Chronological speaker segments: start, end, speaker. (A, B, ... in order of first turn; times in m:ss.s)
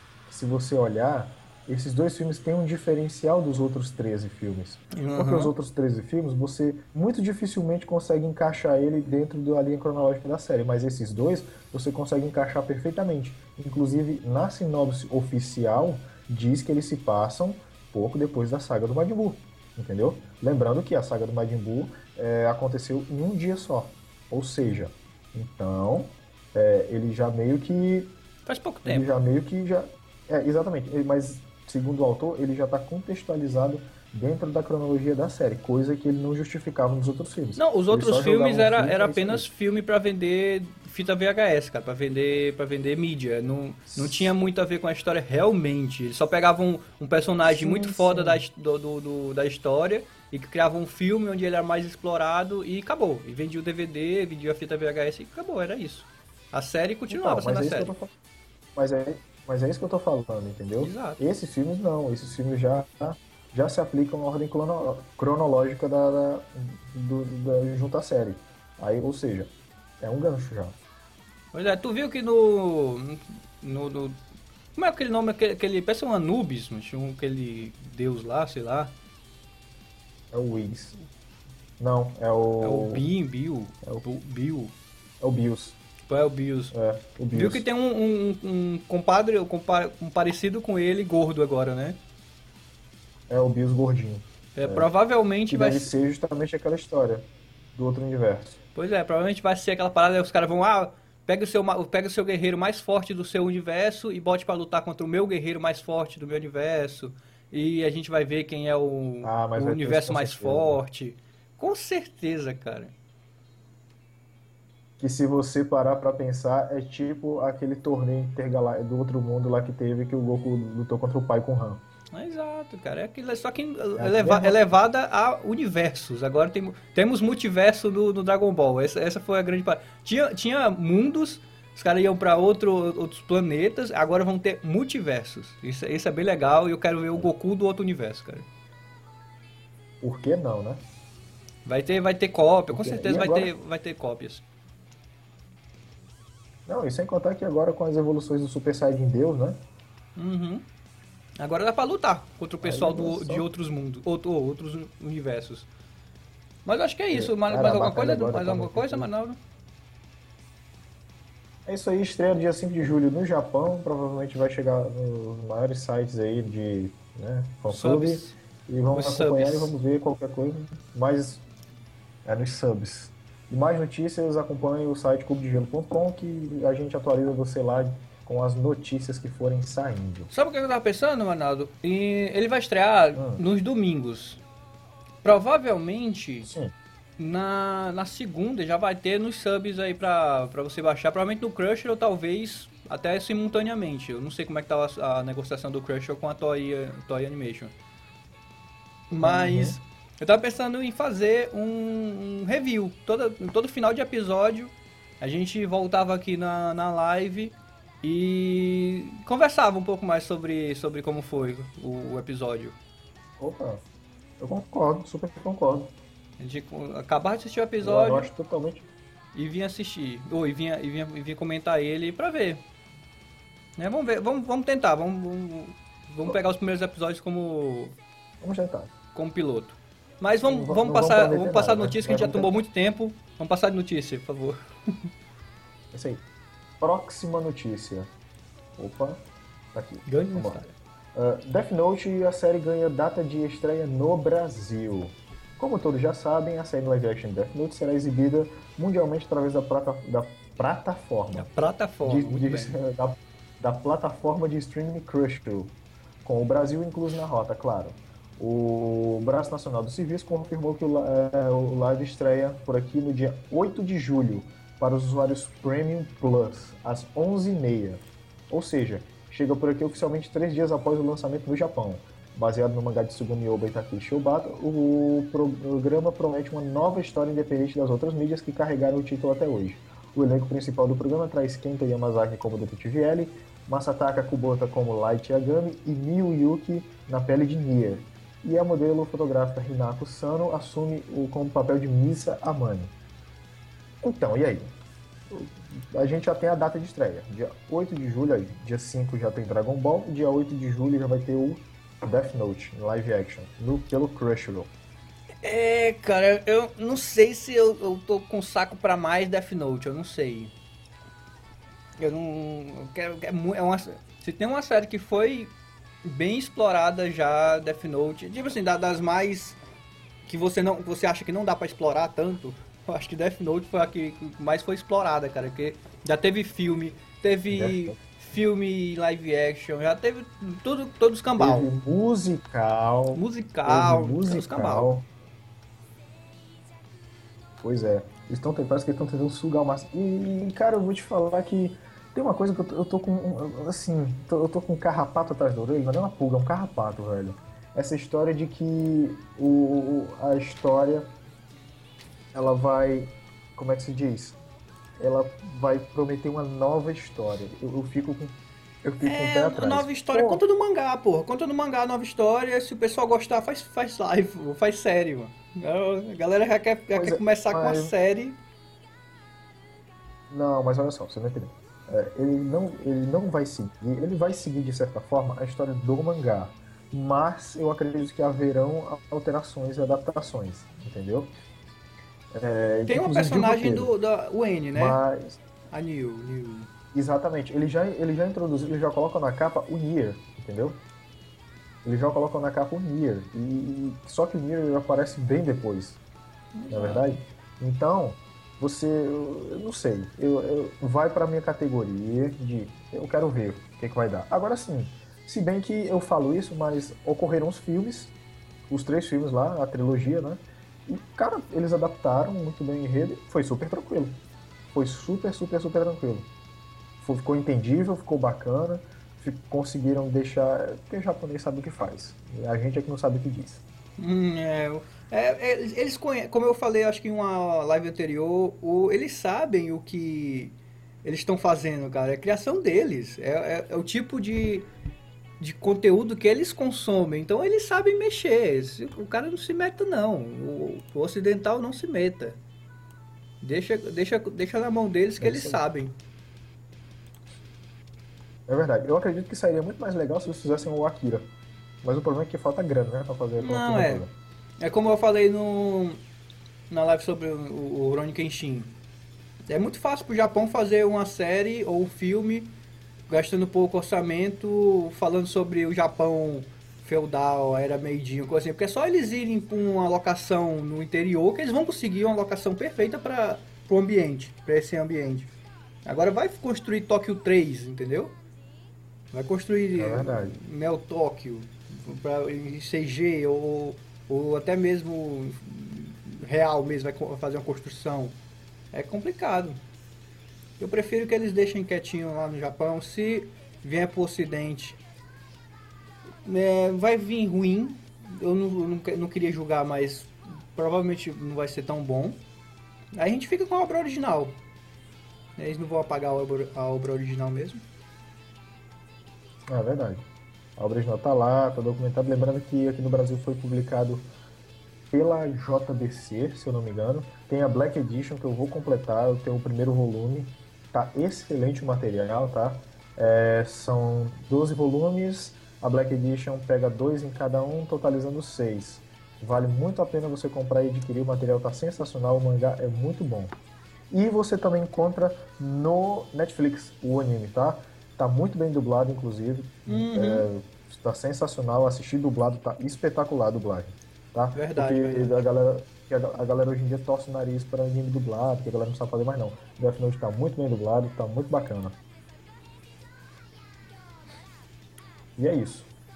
0:00.2-0:28.2 A
0:04.9-0:05.5 B
0:28.4-0:29.1 B
0:28.8-0:39.4 A
0:37.6-0:57.9 B
0:43.9-0:44.4 A
0:47.4-0:48.4 A
0:57.1-0:58.1 A
0:58.7-1:10.8 A
1:00.8-1:01.2 B
1:11.5-1:14.2 B
1:14.8-1:19.0 B
1:20.3-1:21.0 A
1:21.8-1:23.0 A
1:22.6-1:24.7 B
1:25.2-1:25.8 A
1:26.1-1:26.7 B
1:26.7-1:27.6 A
1:27.3-1:32.0 B
1:33.3-1:34.9 A
1:34.5-1:35.9 B
1:35.5-1:38.6 A
1:38.7-1:52.9 B
1:49.2-1:50.8 A
1:55.0-2:01.8 A
2:02.1-2:18.5 B
2:04.0-2:04.8 A
2:20.0-2:20.8 A
2:21.6-2:24.4 B
2:22.7-2:23.5 A
2:26.6-2:29.6 A
2:30.2-2:30.6 B
2:31.4-2:35.7 B
2:32.6-2:33.5 A
2:36.6-2:39.4 B
2:37.1-2:39.1 A
2:41.6-2:51.4 A
2:47.7-2:48.4 B
2:48.9-2:49.7 B
2:52.2-3:00.3 A
3:00.3-3:04.4 B
3:03.1-3:03.4 A
3:05.2-3:06.5 B
3:07.2-3:17.7 B
3:19.1-3:32.8 B
3:19.2-3:19.8 A
3:33.4-3:33.8 A
3:34.4-3:35.9 A
3:36.4-3:38.3 B
3:37.8-3:38.9 A
3:39.3-3:42.6 B
3:43.8-3:47.9 B
3:48.4-3:48.9 A
3:49.1-3:55.0 B
3:50.4-3:52.5 A
3:55.9-3:56.2 A
3:56.8-3:58.1 A
3:58.8-3:59.2 A
3:59.7-4:00.6 A
4:00.0-4:00.7 B
4:01.1-4:11.5 A
4:11.3-4:12.8 B
4:12.0-4:52.9 A
4:54.0-4:54.7 A
4:55.3-5:04.7 A
5:05.4-5:10.5 B
5:12.0-5:15.5 B
5:16.0-5:19.6 B
5:20.2-5:31.7 B
5:27.5-5:28.0 A
5:31.4-5:35.1 A
5:33.1-5:34.9 B
5:37.6-5:51.1 A
5:52.3-5:54.4 A
5:55.0-6:00.4 A
5:59.0-6:08.4 B
6:06.9-6:07.9 A
6:10.3-6:21.3 A
6:22.3-6:23.9 A
6:22.9-6:25.0 B
6:24.7-6:25.4 A
6:25.7-6:26.7 B
6:26.9-6:30.8 A
6:31.8-6:36.0 A
6:36.5-6:37.1 B
6:36.7-6:48.1 A
6:48.7-6:54.2 A
6:54.7-6:56.3 A
6:57.0-7:03.6 A
7:04.0-7:14.7 B
7:15.4-7:22.4 B
7:23.4-7:26.0 B
7:25.2-7:25.6 A
7:28.5-7:31.3 A
7:31.8-7:34.1 A
7:33.4-7:34.0 B
7:34.6-7:36.0 B
7:36.7-7:38.7 B
7:39.5-7:42.5 B
7:43.1-7:55.3 B
7:55.8-7:58.1 B
7:59.1-8:08.2 B
7:59.8-8:00.4 A
8:08.7-8:09.6 B
8:10.6-8:14.8 B
8:16.2-8:22.2 B
8:23.0-8:24.4 B
8:25.4-8:27.6 B
8:29.5-8:30.0 A
8:30.6-8:34.1 A
8:34.9-8:53.3 A
8:53.9-9:11.8 A
8:59.6-9:00.3 B
9:04.3-9:05.3 B
9:15.2-9:15.7 A